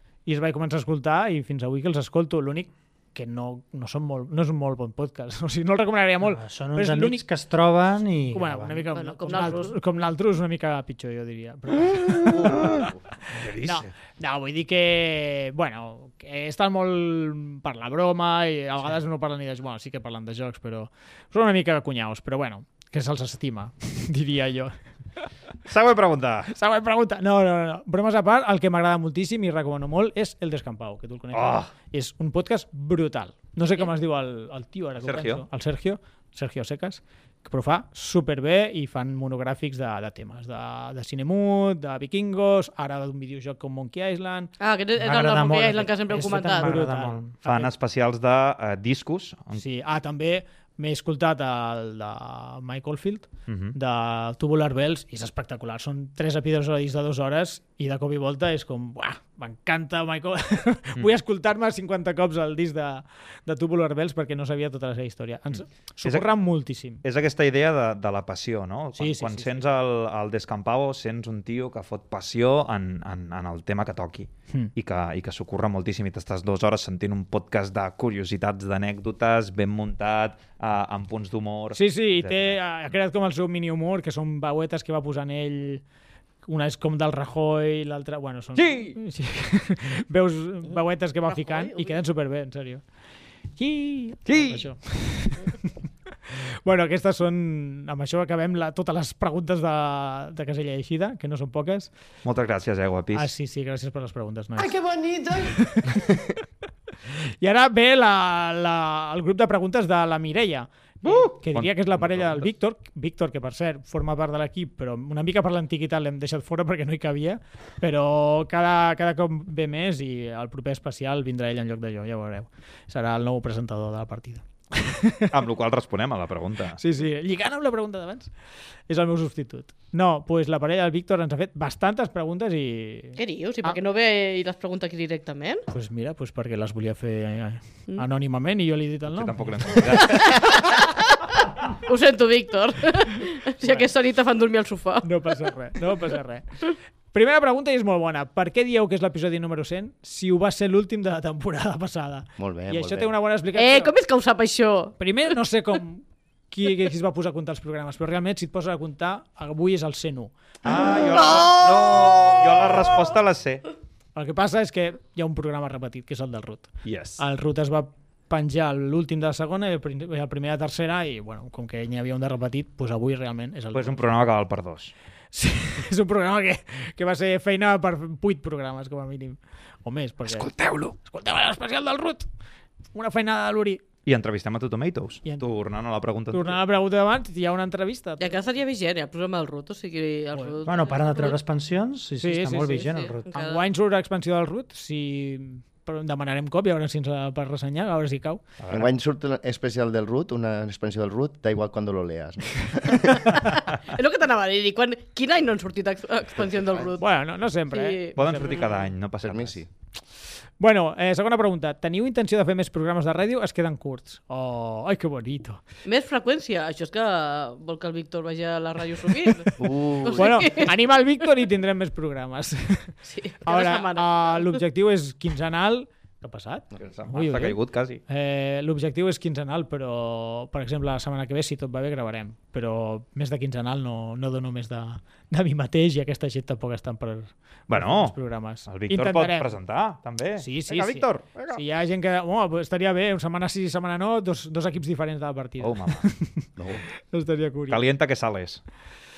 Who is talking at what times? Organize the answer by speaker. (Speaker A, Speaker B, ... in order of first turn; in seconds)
Speaker A: 0.2-7.2, 8.3-24.8, 26.5-44.5, 46.1-47.7, 49.5-67.0, 69.0-69.6, 81.7-85.8, 86.4-92.8, 93.5-95.7, 96.2-101.9, 103.1-106.4, 107.4-125.3, 126.8-128.3, 128.9-133.7, 135.7-140.6, 143.6-143.9, 145.0-153.9, 155.0-160.7, 164.1-174.1, 175.3-182.3, 182.9-183.8, 186.3-188.4, 192.2-198.4, 207.0-208.8, 210.6-215.6, 220.2-239.5, 240.4-246.5, 247.1-247.8
Speaker B: 6.2-8.9, 45.0-47.3, 190.6-193.2
Speaker C: 8.9-9.8, 44.6-46.8, 91.3-92.0, 133.2-135.6, 140.0-145.1, 153.5-154.9, 161.1-162.2, 188.2-191.3, 192.6-193.6, 203.2-207.1, 207.7-208.7, 215.8-220.7, 223.1-224.6
Speaker D: 12.3-13.9, 25.6-26.5, 31.3-31.7, 35.0-35.4, 47.4-49.6, 53.5-53.8, 66.0-66.3, 67.0-82.6, 88.5-89.0, 94.2-94.8, 102.2-103.3, 111.0-112.5, 125.3-126.8, 139.1-140.6, 160.6-163.6, 166.8-167.2, 173.7-174.9, 180.2-180.9, 184.1-186.6, 198.6-198.9, 208.2-209.6, 226.7-228.0, 237.7-241.6, 245.6-246.1, 247.7-248.6
Speaker E: 12.4-13.0, 152.4-153.1, 198.7-203.5, 206.4-206.9, 209.2-209.7, 219.6-220.3, 246.6-246.8